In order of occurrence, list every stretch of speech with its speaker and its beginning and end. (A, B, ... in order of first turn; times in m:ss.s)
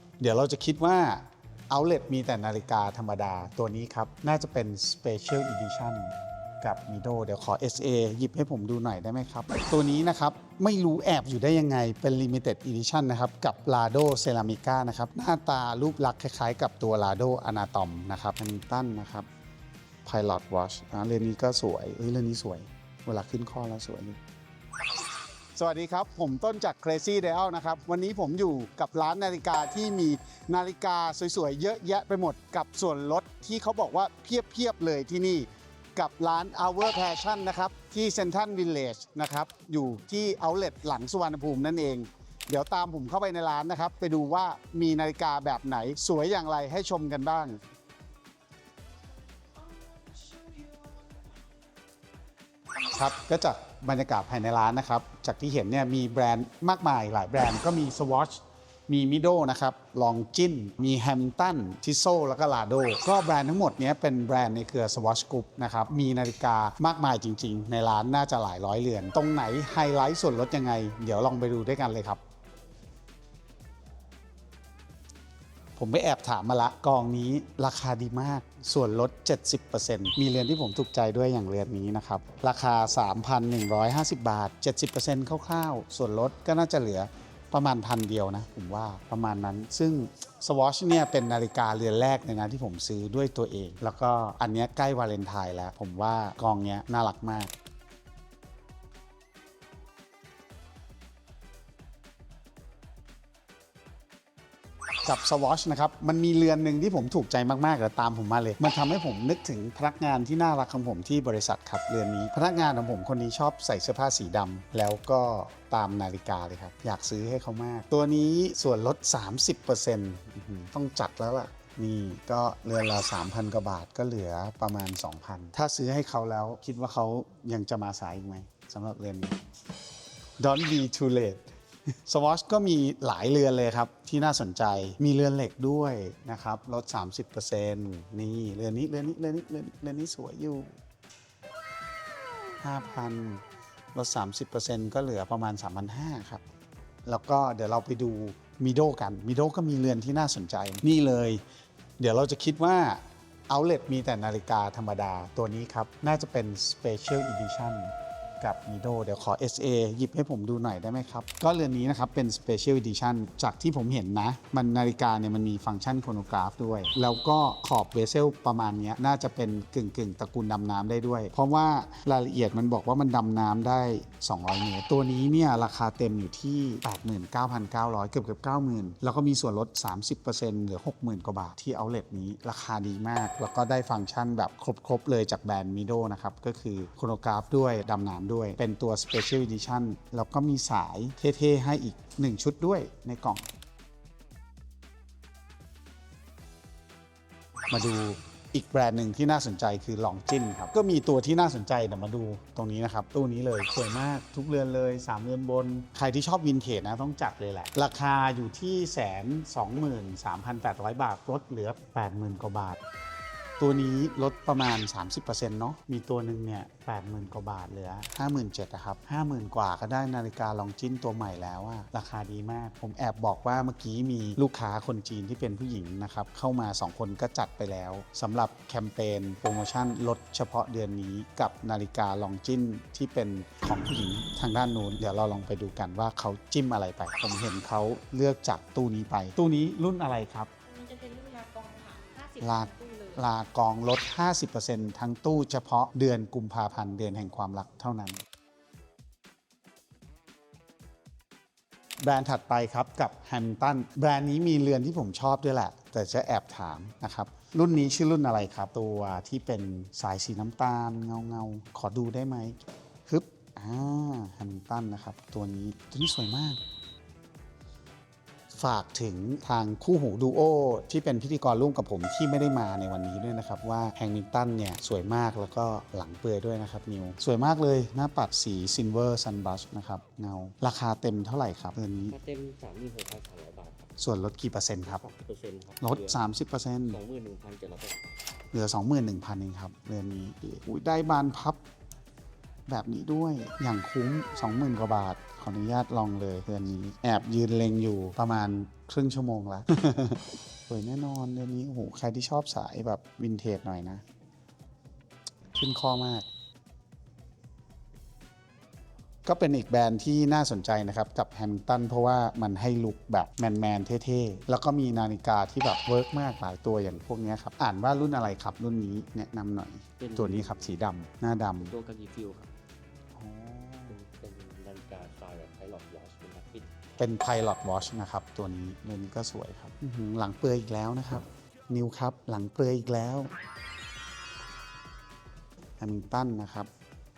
0:00.2-0:19.3 A
0:20.0-0:24.2 A
0:25.6-0:47.6 A
0:52.9-1:12.2 A
1:15.8-1:37.5 A
1:45.0-2:09.4 A
2:10.4-2:11.5 A
2:12.1-2:20.8 A
2:22.6-2:26.4 A
2:27.1-2:31.4 A
2:32.0-3:13.5 A
3:17.7-3:32.8 A
3:33.6-4:00.5 A
4:00.7-4:03.2 B
4:02.4-4:08.2 A
4:12.0-4:26.6 A
4:28.5-4:42.2 A
4:42.1-4:44.0 C
4:44.0-4:45.0 A
4:44.8-4:46.2 C
4:45.8-4:47.0 A
4:46.8-4:48.0 C
4:48.5-4:51.6 A
4:52.7-5:04.0 A
5:05.5-5:06.2 A
5:09.2-5:21.7 A
5:20.0-5:20.8 C
5:21.6-5:22.5 C
5:23.2-5:24.0 A
5:23.9-5:26.7 C
5:27.0-5:33.3 A
5:35.8-5:36.7 A